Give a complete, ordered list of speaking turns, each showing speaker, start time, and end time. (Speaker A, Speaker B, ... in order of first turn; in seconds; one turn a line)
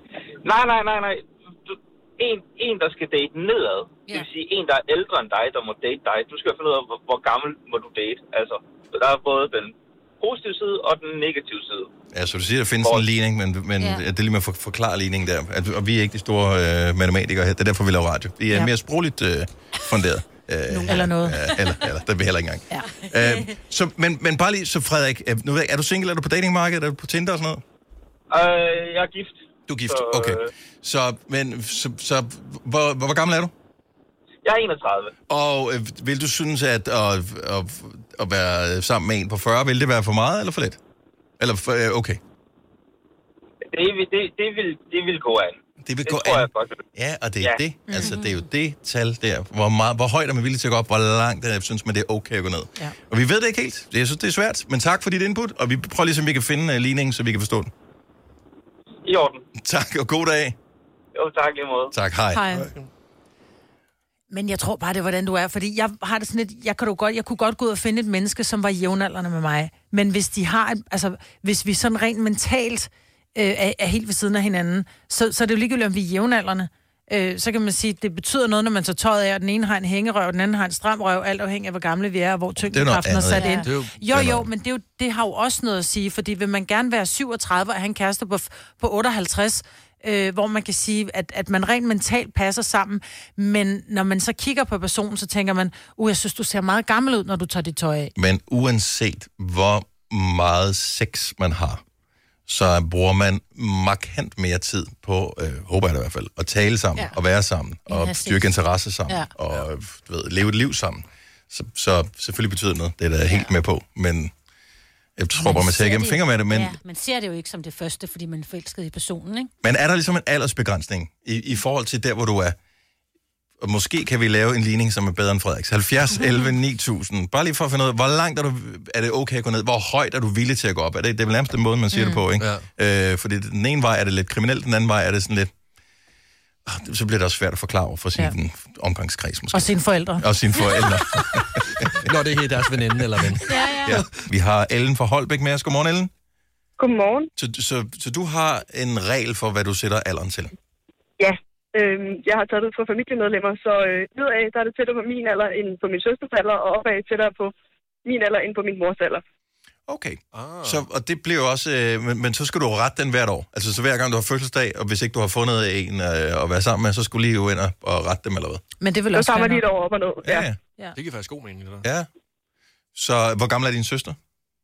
Speaker A: 0.4-11.9
Speaker B: 12.1-27.6
Speaker C: 20.7-21.4
Speaker D: 21.5-21.8
Speaker D: 23.1-23.5
Speaker A: 28.3-30.5
Speaker B: 29.7-33.5
Speaker A: 34.4-35.1
Speaker B: 35.3-40.8
Speaker B: 41.4-42.2
Speaker A: 43.7-46.8
Speaker B: 45.8-57.7
Speaker C: 47.9-48.1
Speaker A: 59.0-59.4
Speaker B: 59.6-60.5
Speaker A: 61.1-61.9
Speaker B: 61.9-62.4
Speaker C: 62.3-62.7
Speaker E: 62.5-62.9
Speaker C: 64.3-98.1
Speaker B: 82.6-83.6
Speaker D: 83.3-83.7
Speaker E: 83.7-83.9
Speaker B: 84.1-84.5
Speaker B: 98.2-101.8
Speaker B: 102.5-114.3
Speaker D: 107.9-108.5
Speaker B: 115.2-116.8
Speaker D: 115.4-119.5
Speaker B: 119.6-122.6
Speaker B: 123.6-135.5
Speaker E: 132.4-132.7
Speaker B: 136.6-142.0
Speaker C: 139.5-140.3
Speaker E: 142.0-144.2
Speaker D: 143.5-143.9
Speaker B: 143.8-146.1
Speaker F: 146.8-147.3
Speaker B: 147.4-150.5
Speaker F: 151.2-157.5
Speaker F: 158.0-159.2
Speaker B: 159.9-168.6
Speaker E: 160.3-160.8
Speaker C: 168.8-169.6
Speaker F: 169.1-170.3
Speaker B: 170.2-170.6
Speaker E: 170.3-171.8
Speaker B: 171.8-172.1
Speaker B: 172.9-174.2